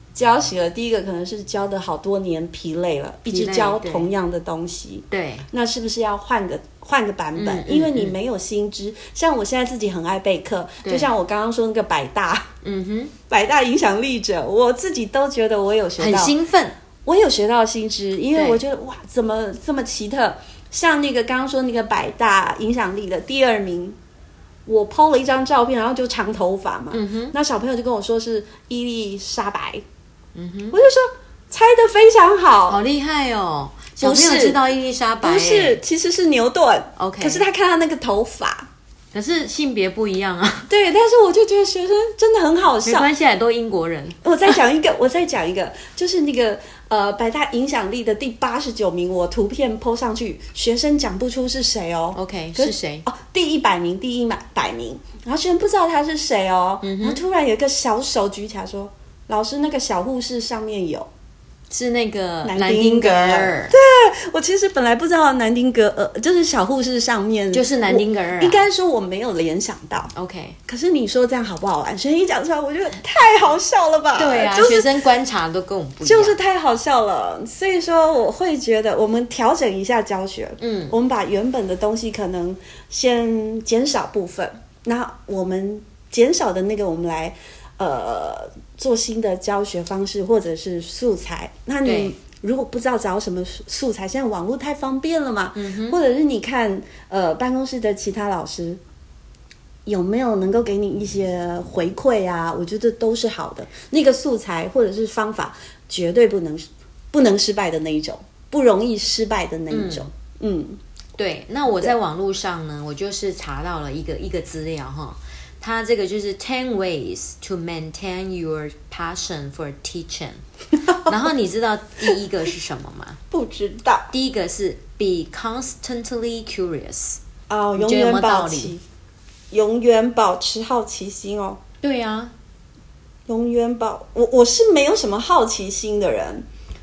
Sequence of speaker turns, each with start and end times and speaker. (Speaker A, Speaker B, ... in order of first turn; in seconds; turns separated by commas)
Speaker A: 0.1-12.5, Speaker B: 3.3-4.1, Speaker B: 5.1-5.5, Speaker B: 7.3-8.2, Speaker B: 10.8-11.1, Speaker B: 12.6-13.1, Speaker A: 13.3-16.3, Speaker B: 16.0-16.8, Speaker A: 17.0-24.0, Speaker B: 18.3-18.6, Speaker A: 24.6-29.8, Speaker B: 26.9-27.3, Speaker B: 30.3-30.8, Speaker A: 30.7-32.8, Speaker B: 32.7-35.8, Speaker A: 34.0-34.6, Speaker A: 35.2-38.7, Speaker B: 37.0-37.4, Speaker B: 39.1-40.7, Speaker A: 40.7-43.1, Speaker B: 42.8-44.5, Speaker A: 44.2-61.1, Speaker B: 52.1-53.0, Speaker B: 56.8-57.2, Speaker B: 61.7-63.8, Speaker A: 62.4-70.1, Speaker B: 67.5-68.6, Speaker B: 70.1-70.6, Speaker A: 70.7-74.9, Speaker B: 74.1-76.3, Speaker A: 76.0-98.8, Speaker B: 80.6-80.9, Speaker B: 91.8-92.1, Speaker B: 95.5-96.0, Speaker A: 99.8-110.8, Speaker B: 109.7-110.1, Speaker B: 111.2-123.2, Speaker A: 123.3-124.1, Speaker B: 124.1-127.2, Speaker A: 127.5-128.8, Speaker B: 127.8-128.7, Speaker A: 129.5-131.6, Speaker B: 131.8-132.3, Speaker A: 133.3-136.4